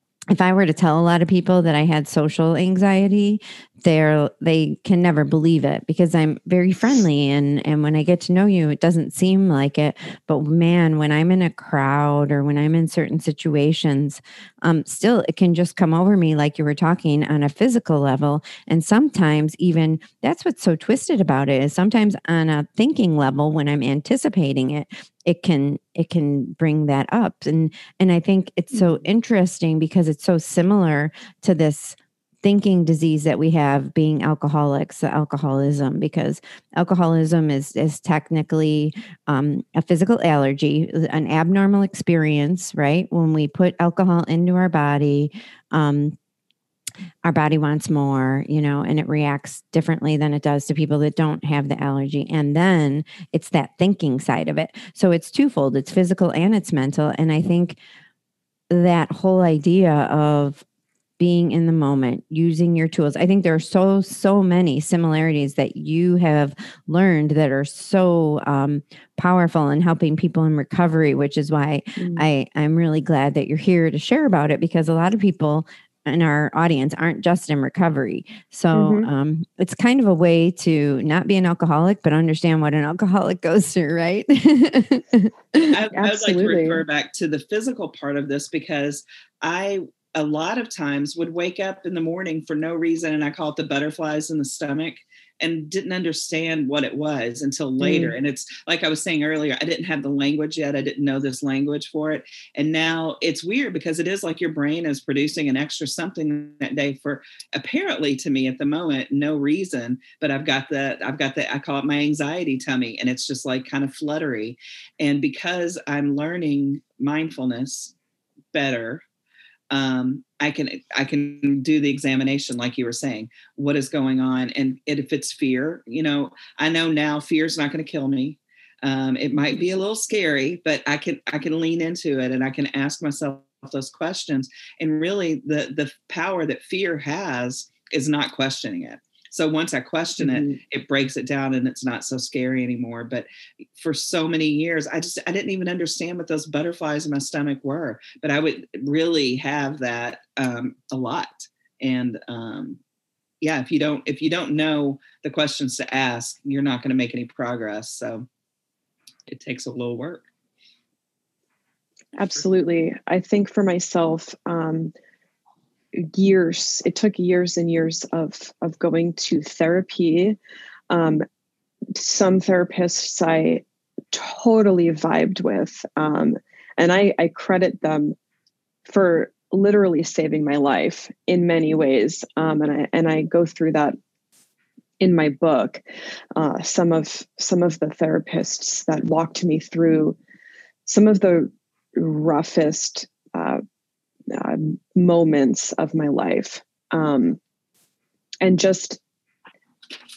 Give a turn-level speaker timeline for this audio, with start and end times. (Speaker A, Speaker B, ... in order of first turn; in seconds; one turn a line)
Speaker A: 0.3-46.1
Speaker B: 28.7-29.0
Speaker A: 47.2-57.8
Speaker A: 58.7-60.6
Speaker A: 61.2-85.7
Speaker B: 72.0-72.2
Speaker B: 78.7-79.1
Speaker C: 85.6-117.9
Speaker B: 85.9-86.8
Speaker B: 97.8-98.1
Speaker C: 118.5-119.0
Speaker C: 119.7-152.8
Speaker B: 140.2-140.6
Speaker C: 153.4-158.2
Speaker C: 159.3-160.2
Speaker B: 162.2-164.9
Speaker B: 166.0-170.4
Speaker B: 170.9-171.2
Speaker B: 171.9-178.1
Speaker B: 178.9-183.9
Speaker B: 185.0-185.8
Speaker B: 186.3-190.2
Speaker B: 190.8-193.6
Speaker B: 194.3-197.4
Speaker B: 198.4-199.0